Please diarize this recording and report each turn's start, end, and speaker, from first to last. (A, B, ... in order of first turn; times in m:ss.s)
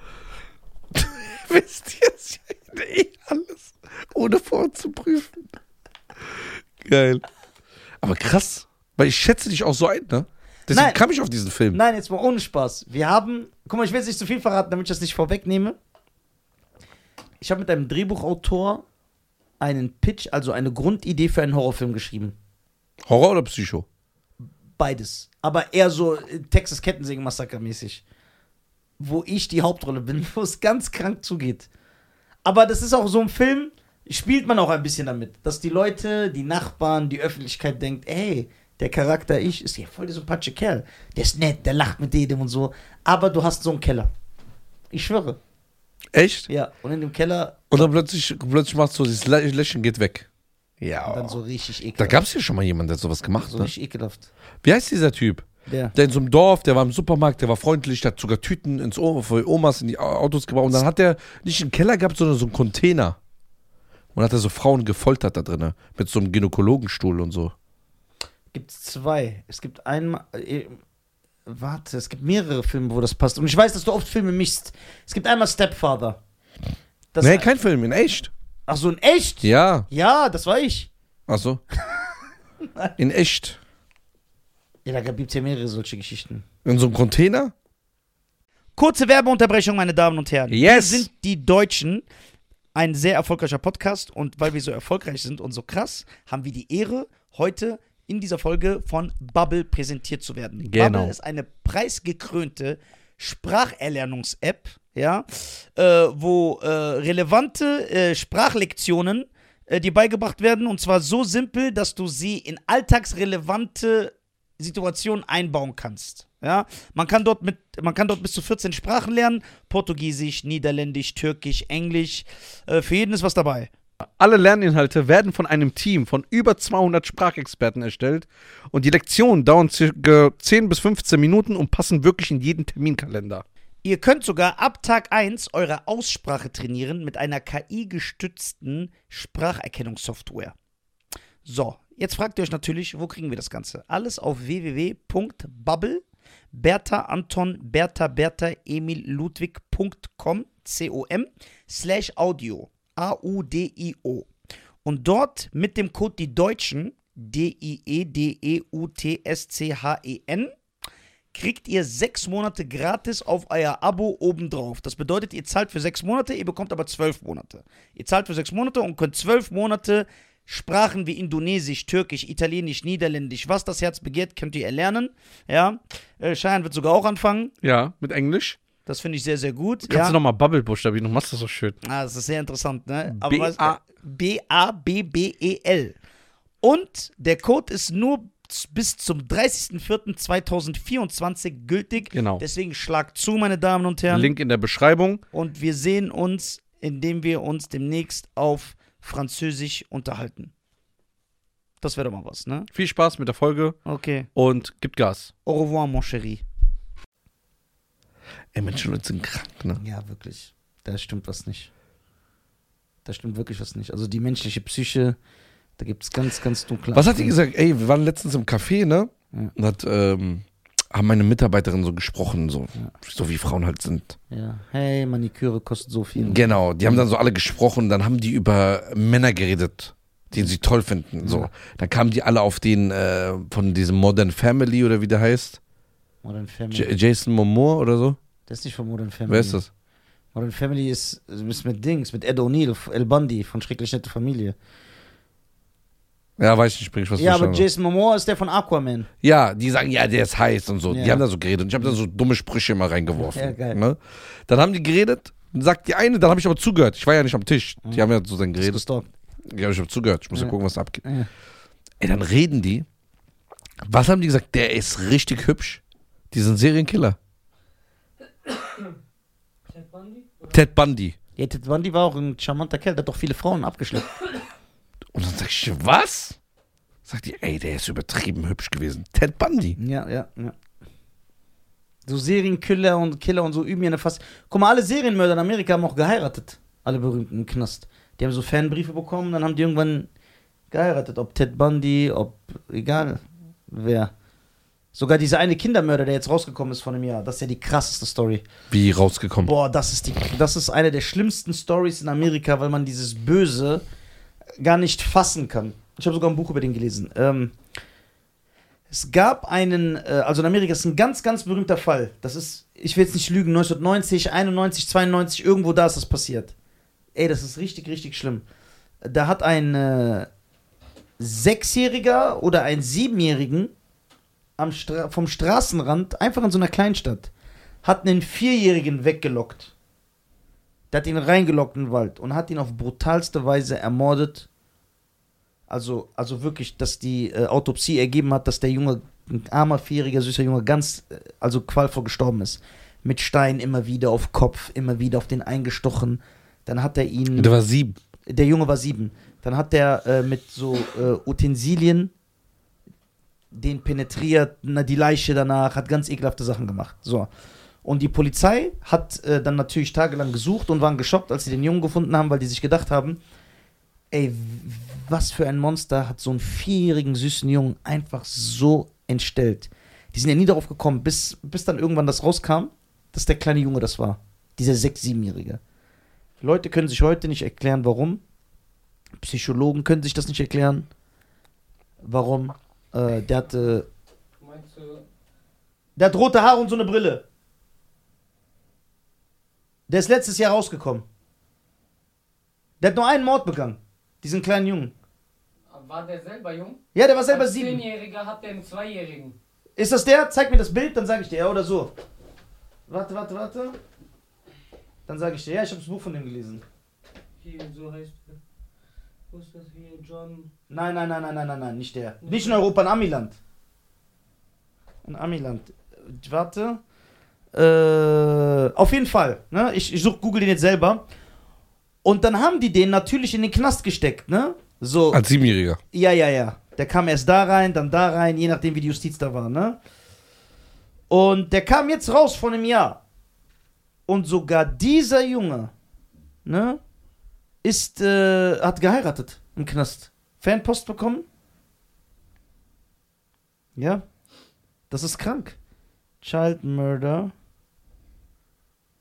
0:00.9-0:05.4 A
0:06.3-0:07.2 A
0:08.0-0:11.8 A
0:10.7-0:11.0 B
0:11.7-0:15.8 B
0:17.4-0:18.8 B
0:19.6-0:22.4 B
0:23.0-0:23.8 A
0:24.8-0:28.0 B
0:29.0-0:31.7 B
0:32.4-0:44.1 B
0:44.9-0:45.4 B
0:46.1-0:46.5 A
0:46.5-0:47.9 B
0:47.7-0:50.3 A
0:50.8-0:51.4 A
0:51.0-0:52.2 B
0:52.0-0:53.7 A
0:53.4-0:54.3 B
0:54.6-1:03.2 A
0:55.7-0:55.9 B
1:04.1-1:07.5 A
1:08.5-1:10.8 B
1:11.4-1:16.2 B
1:17.1-1:17.5 B
1:17.2-1:18.3 A
1:18.7-1:20.9 B
1:19.4-1:19.9 A
1:21.3-1:21.6 A
1:23.0-1:23.6 A
1:24.8-1:26.4 B
1:26.6-1:27.5 A
1:28.8-1:32.0 B
1:30.5-1:31.1 C
1:32.7-2:03.7 B
1:40.6-1:41.1 C
2:04.0-2:13.4 C
2:13.8-2:20.5 B
2:21.4-2:34.3 B
2:34.8-2:40.5 B
2:41.3-2:57.5 B
2:57.6-2:58.6 C
2:58.8-3:00.2 B
2:59.9-3:01.8 C
3:01.8-3:05.9 B
3:03.2-3:03.8 C
3:06.6-3:14.3 B
3:12.1-3:12.4 C
3:14.1-3:15.2 C
3:15.3-3:20.5 B
3:21.8-3:22.7 B
3:22.7-3:23.8 C
3:23.8-3:24.3 B
3:24.3-3:25.3 C
3:25.4-3:26.4 B
3:28.5-3:29.8 A
3:29.8-3:31.7 B
3:33.0-3:35.2 B
3:35.8-3:37.3 B
3:36.9-3:44.2 A
3:44.3-3:47.0 B
3:46.2-3:55.6 A
3:51.2-3:51.5 B
3:56.2-3:56.9 B
3:56.7-3:58.2 A
3:58.5-3:59.6 B
3:59.3-3:59.7 A
4:00.3-4:04.6 B
4:06.4-4:07.6 A
4:07.2-4:09.1 B
4:09.2-4:18.8 A
4:10.9-4:11.2 B
4:13.2-4:13.8 B
4:18.6-4:19.1 B
4:19.4-4:21.0 A
4:20.3-4:21.3 B
4:22.0-4:22.8 A
4:23.8-4:27.2 A
4:28.4-4:28.9 D
4:29.7-4:30.6 D
4:30.5-4:31.2 A
4:31.4-4:34.1 B
4:35.1-4:36.4 A
4:37.0-4:39.8 A
4:39.8-4:40.5 B
4:42.0-4:50.1 B
4:50.7-4:54.1 B
4:54.9-4:58.4 B
4:58.7-4:59.5 A
4:59.4-5:03.8 B
5:04.6-5:07.5 B
5:08.9-5:16.5 B
5:17.1-5:18.4 B
5:19.0-5:20.3 B
5:21.2-5:23.7 B
5:24.6-5:27.3 B
5:27.8-5:29.7 B
5:30.9-5:34.5 B
5:35.7-5:47.5 B
5:47.4-5:48.0 A
5:48.3-5:52.1 B
5:53.5-5:57.3 B
5:57.8-6:03.2 B
6:04.1-6:15.6 B
6:16.4-6:18.2 B
6:19.2-6:20.9 B
6:22.0-6:23.8 B
6:24.4-6:25.0 D
6:26.0-6:27.2 B
6:29.9-6:31.0 B
6:32.8-6:34.9 B
6:35.7-6:39.4 D
6:36.9-6:37.8 B
6:39.8-6:41.9 B
6:42.9-6:43.8 B
6:45.1-6:46.6 B
6:47.4-6:48.4 D
6:49.3-6:50.5 D
6:50.7-6:53.4 B
6:52.2-6:52.6 D
6:55.0-6:56.8 B
6:57.5-7:01.0 B
7:02.0-7:05.2 B
7:05.1-7:05.8 A
7:05.9-7:09.8 B
7:11.1-7:13.0 B
7:14.1-7:15.7 B
7:16.4-7:16.8 B
7:17.6-7:21.2 B
7:23.8-7:24.0 B
7:24.9-7:25.6 B
7:26.2-7:27.3 B